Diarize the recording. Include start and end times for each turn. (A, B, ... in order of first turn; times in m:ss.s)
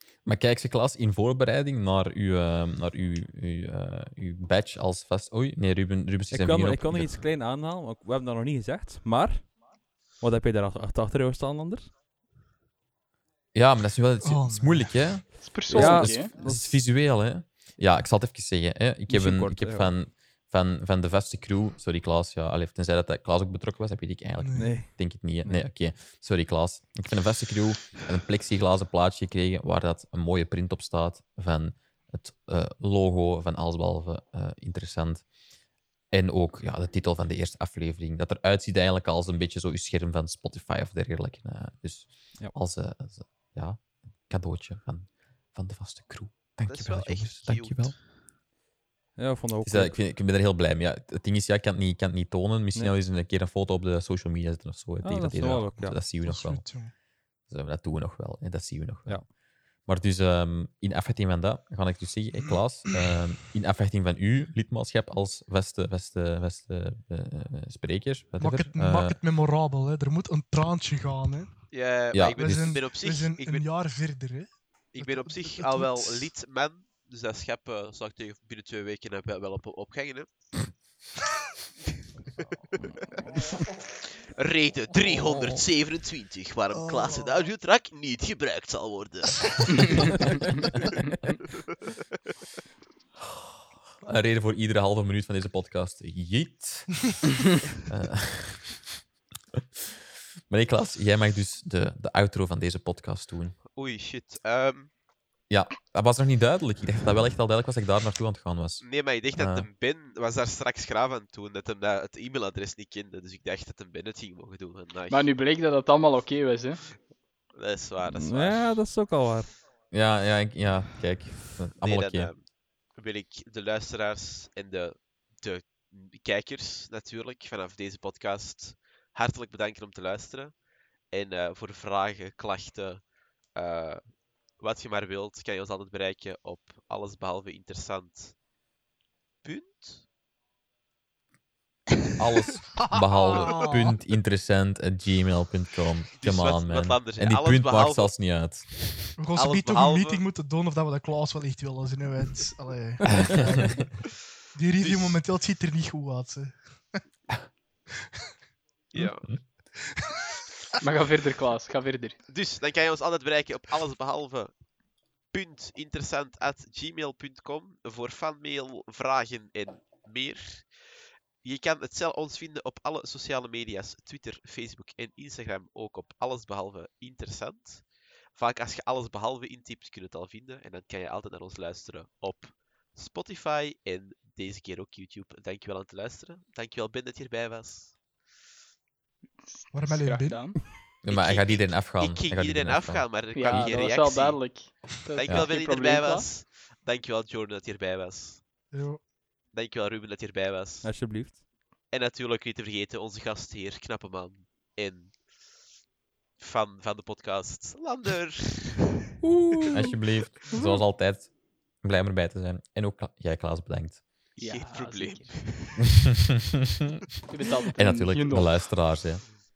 0:00.2-0:07.2 A
0:06.3-0:09.6 B
0:10.2-0:11.9 B
0:13.5-0:35.2 A
0:14.2-0:15.2 C
0:15.4-0:16.3 D
0:15.7-0:16.8 B
0:19.1-0:19.9 B
0:24.4-0:24.8 C
0:24.6-0:25.7 B
0:36.1-0:47.9 A
0:46.7-0:48.0 E
0:49.2-0:50.0 B
0:49.6-0:56.9 A
0:55.0-0:56.1 B
0:56.1-0:56.9 C
0:57.5-1:09.2 A
1:08.4-1:16.3 C
1:11.7-1:13.7 E
1:12.1-1:12.8 A
1:14.9-1:20.3 E
1:22.7-1:23.5 E
1:24.0-1:30.3 E
1:25.1-1:25.6 A
1:26.7-1:27.4 C
1:34.0-1:38.8 A
1:40.5-1:43.6 A
1:43.7-1:44.9 E
1:45.5-1:49.7 A
1:48.8-1:55.3 E
1:55.1-1:56.8 D
1:57.5-1:58.6 E
1:58.0-1:59.5 B
1:59.9-2:02.3 A
2:01.8-2:10.5 E
2:11.1-2:13.0 E
2:13.5-2:14.0 E
2:14.6-2:18.4 E
2:19.4-2:20.0 E
2:22.2-2:29.0 A
2:23.3-2:23.9 C
2:26.2-2:28.1 E
2:29.2-2:33.8 C
2:29.3-2:30.2 E
2:33.0-2:33.8 B
2:33.3-2:33.7 A
2:34.5-2:37.0 C
2:34.8-2:35.2 E
2:38.9-2:39.4 E
2:39.0-2:39.4 A
2:40.8-2:42.2 D
2:42.3-2:44.5 E
2:45.3-2:50.7 E
2:51.4-3:08.0 E
3:09.5-3:10.6 D
3:09.7-3:10.6 C
3:11.0-3:13.8 A
3:11.1-3:18.4 E
3:13.3-3:16.3 D
3:18.7-3:19.0 C
3:19.5-3:20.9 E
3:20.8-3:21.4 B
3:21.9-3:25.2 E
3:26.4-3:29.0 E
3:29.2-3:30.0 B
3:29.7-3:34.0 A
3:34.4-3:35.9 E
3:34.4-3:35.9 D
3:37.3-3:38.7 D
3:37.7-3:39.3 A